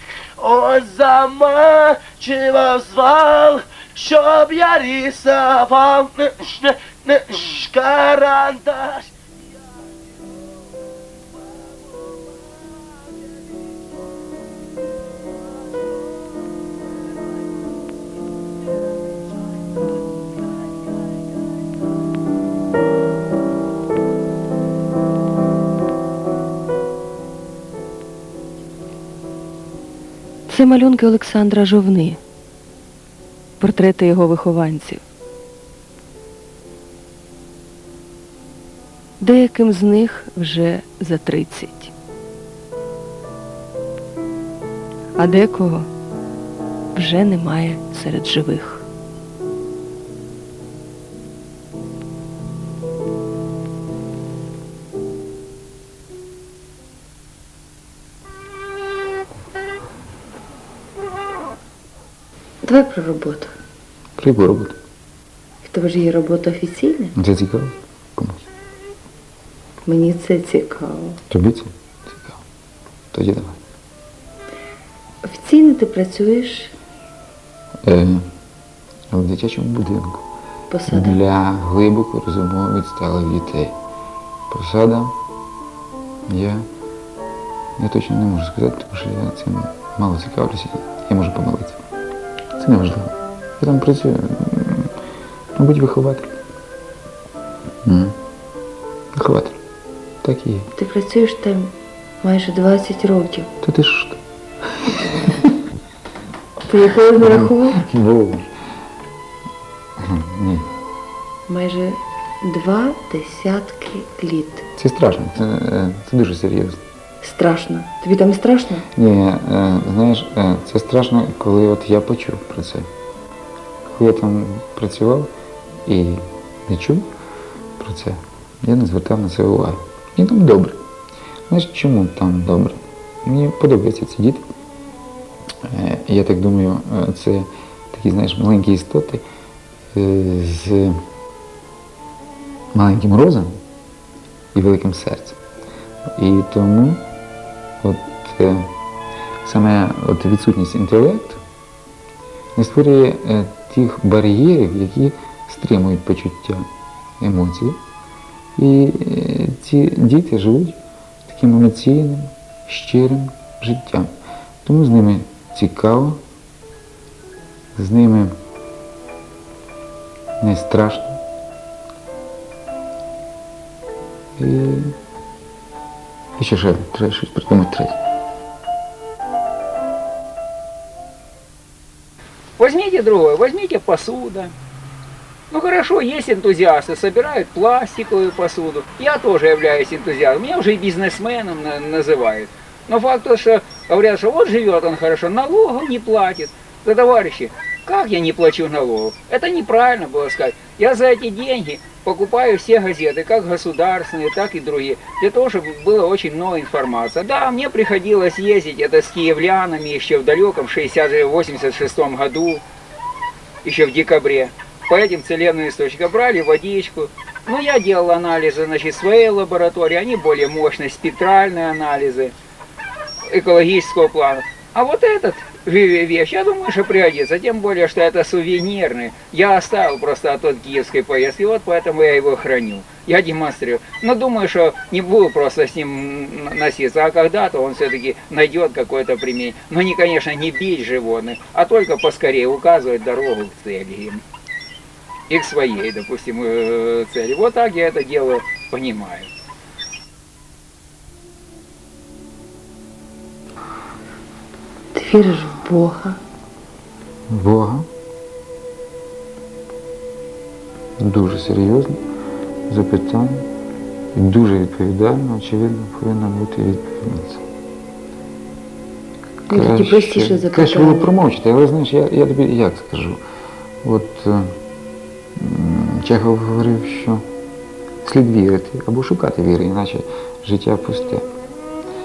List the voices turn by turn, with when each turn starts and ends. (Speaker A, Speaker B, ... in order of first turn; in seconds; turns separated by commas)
Speaker A: 0.4-9.1, Speaker B: 30.5-32.2, Speaker B: 33.6-35.0, Speaker B: 39.2-41.9, Speaker B: 45.2-45.9, Speaker B: 46.9-48.9, Speaker C: 62.6-63.5, Speaker D: 64.2-64.8, Speaker C: 65.6-67.1, Speaker D: 67.2-68.5, Speaker C: 69.9-71.2, Speaker D: 71.3-72.4, Speaker D: 73.1-73.6, Speaker C: 75.2-76.8, Speaker D: 77.8-78.2, Speaker D: 79.1-80.3, Speaker C: 80.7-81.2, Speaker D: 80.9-83.8, Speaker D: 84.5-85.1, Speaker D: 86.3-86.7, Speaker D: 87.8-91.8, Speaker D: 92.6-94.9, Speaker D: 95.5-96.4, Speaker D: 97.9-98.2, Speaker D: 99.2-99.6, Speaker D: 100.2-100.7, Speaker C: 100.8-103.5, Speaker D: 103.6-104.2, Speaker C: 106.7-107.8, Speaker D: 107.2-108.5, Speaker D: 110.0-110.7, Speaker C: 111.5-114.6, Speaker D: 114.8-116.8, Speaker C: 117.2-118.8, Speaker D: 118.9-122.9, Speaker D: 123.9-125.3, Speaker D: 125.9-127.1, Speaker D: 127.8-130.8, Speaker D: 131.5-134.4, Speaker D: 135.7-139.2, Speaker D: 139.9-141.0, Speaker D: 142.7-143.6, Speaker D: 144.5-145.4, Speaker D: 146.2-147.0, Speaker D: 147.8-148.7, Speaker D: 149.4-151.4, Speaker D: 152.6-156.7, Speaker D: 157.2-157.8, Speaker D: 158.6-164.1, Speaker D: 164.6-166.2, Speaker D: 167.8-168.3, Speaker D: 170.4-171.2, Speaker D: 174.4-174.9, Speaker D: 176.4-178.0, Speaker E: 182.6-184.5, Speaker E: 185.5-212.6, Speaker E: 213.6-222.3, Speaker E: 223.3-244.2, Speaker E: 245.3-249.3, Speaker C: 254.9-256.2, Speaker D: 257.3-257.9, Speaker D: 261.0-261.9, Speaker D: 262.7-263.5, Speaker D: 264.1-267.4, Speaker C: 269.5-271.1, Speaker D: 269.5-273.2, Speaker D: 273.8-274.5, Speaker D: 275.4-277.2, Speaker D: 278.0-281.3